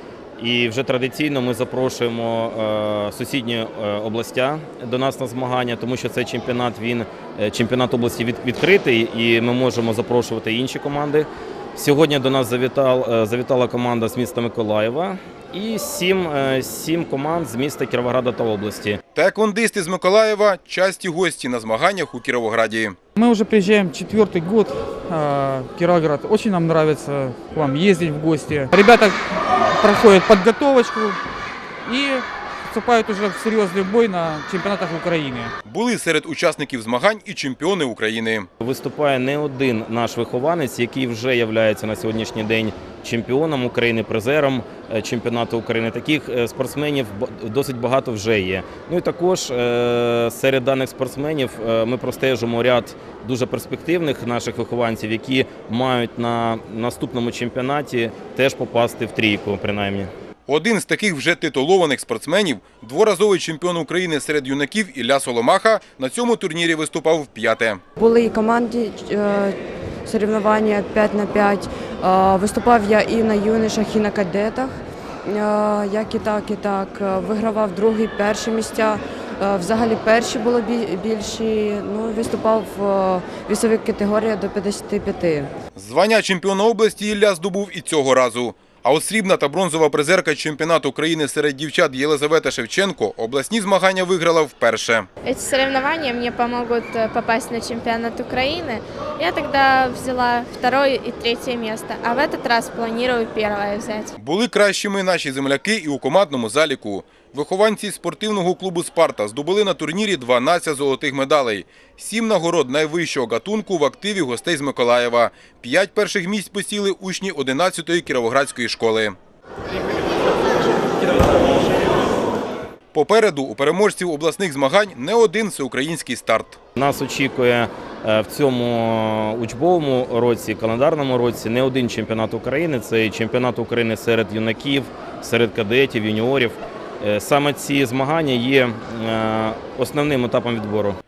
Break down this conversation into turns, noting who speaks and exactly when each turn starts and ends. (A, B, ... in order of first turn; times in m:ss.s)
0:00.4-0:19.0 A
0:19.1-0:23.0 B
0:23.2-0:29.2 C
0:29.7-0:31.2 C
0:31.8-0:35.5 C
0:35.6-0:38.5 B
0:38.6-1:00.1 A
1:00.5-1:07.8 B
1:08.0-1:25.5 D
1:25.8-1:35.1 B
1:35.2-1:44.1 E
1:44.2-1:59.2 B
2:02.9-2:06.6 B
2:06.8-2:21.0 A